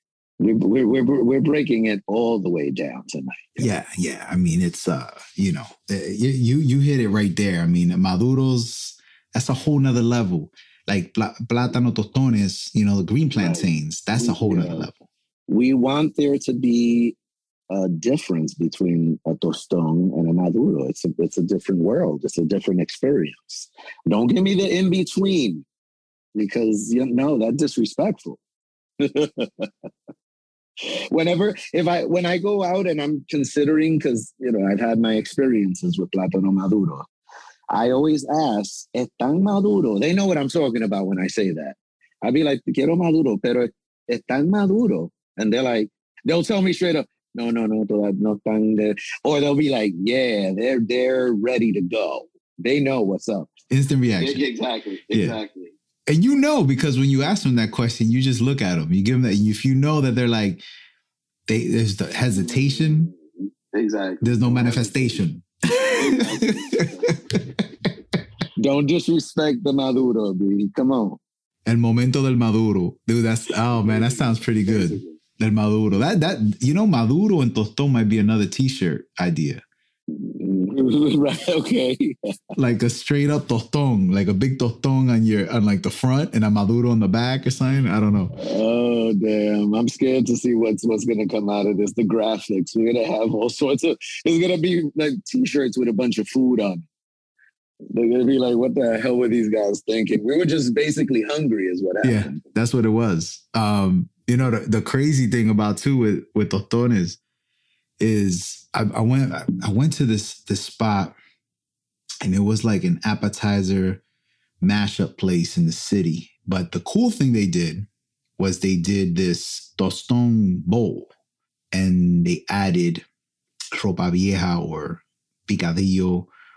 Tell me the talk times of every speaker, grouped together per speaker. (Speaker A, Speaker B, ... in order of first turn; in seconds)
Speaker A: 0.4-3.7, 13.3-14.9, 15.5-17.2, 17.7-25.6, 26.4-28.4, 29.0-29.7, 30.8-37.1, 37.7-53.5, 54.2-55.7, 62.3-65.2, 65.8-67.1, 68.6-71.2, 73.7-75.2, 80.2-82.2, 88.4-96.9, 97.9-102.4
Speaker B: 3.6-15.1, 53.7-54.4, 55.1-55.4, 56.1-60.6, 61.5-63.1, 64.2-67.4, 71.7-79.6, 82.6-88.3, 102.0-107.2, 108.0-111.2, 112.2-114.0, 114.6-121.1, 121.7-123.0, 123.8-126.3